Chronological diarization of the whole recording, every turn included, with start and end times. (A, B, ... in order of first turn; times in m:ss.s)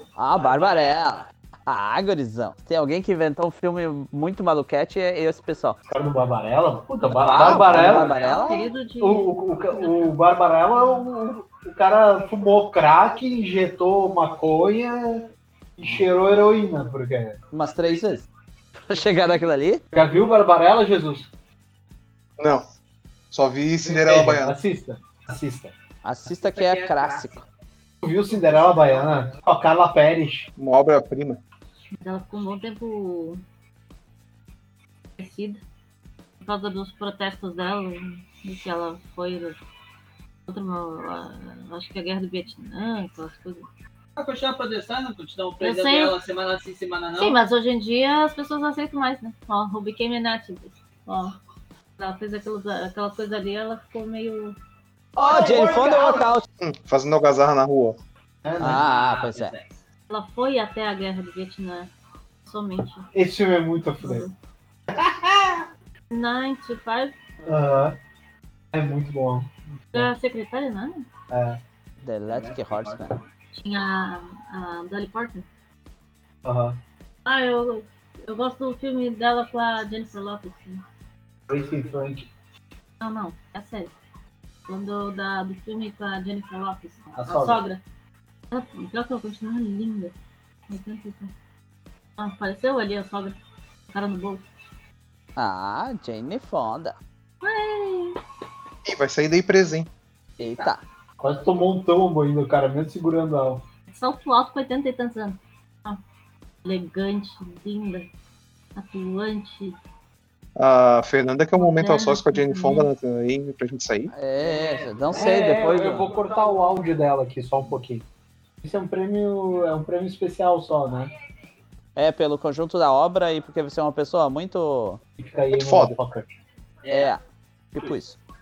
0:00.2-0:05.8 A
0:05.9-0:08.2 B
0:07.1-0:08.7 A
0:07.2-0:08.1 C
0:07.9-0:09.9 D
0:09.0-0:17.4 B
0:17.5-0:18.3 A
0:18.8-0:19.8 A
0:19.9-0:21.3 B
0:22.4-0:22.6 E
0:23.3-0:24.6 E
0:23.8-0:25.7 B
0:26.0-0:27.4 A
0:26.4-0:27.4 C
0:28.0-0:30.5 B
0:30.6-0:31.4 E
0:32.0-0:33.4 D
0:35.2-0:35.6 D
0:36.4-0:39.6 D
0:40.4-0:43.6 D
0:44.2-0:47.4 C
0:45.6-0:46.2 D
0:47.2-0:51.4 D
0:52.0-0:54.6 D
0:55.2-0:56.4 B
0:55.2-0:56.4 A
0:56.6-0:58.0 E
0:58.4-0:58.8 B
0:58.6-0:59.5 A
0:58.6-0:59.7 C
1:00.1-1:01.9 D
1:02.4-1:03.1 D
1:03.1-1:04.3 B
1:04.0-1:04.3 D
1:04.9-1:05.6 B
1:06.1-1:07.2 D
1:07.4-1:08.0 B
1:08.7-1:10.1 B
1:09.9-1:11.1 D
1:11.3-1:11.6 B
1:12.0-1:13.2 A
1:12.3-1:13.1 C
1:13.5-1:15.4 D
1:16.4-1:16.8 B
1:17.2-1:20.8 D
1:21.5-1:22.3 B
1:23.0-1:23.9 D
1:24.7-1:27.8 D
1:27.1-1:27.6 B
1:28.5-1:30.1 D
1:30.7-1:31.3 D
1:32.2-1:33.4 D
1:33.9-1:34.4 D
1:35.4-1:37.0 A
1:37.4-1:38.2 D
1:38.8-1:39.9 E
1:40.4-1:40.8 A
1:41.2-1:43.6 B
1:43.9-1:46.0 D
1:46.6-1:48.1 D
1:48.7-1:49.8 D
1:50.6-1:54.1 E
1:51.6-1:52.9 D
1:54.1-1:56.1 A
1:54.4-1:55.5 C
1:55.1-1:58.0 B
1:58.6-2:01.1 B
2:02.0-2:05.0 A
2:05.2-2:06.3 B
2:05.5-2:06.0 E
2:06.8-2:07.1 C
2:06.9-2:07.2 A
2:07.7-2:08.2 A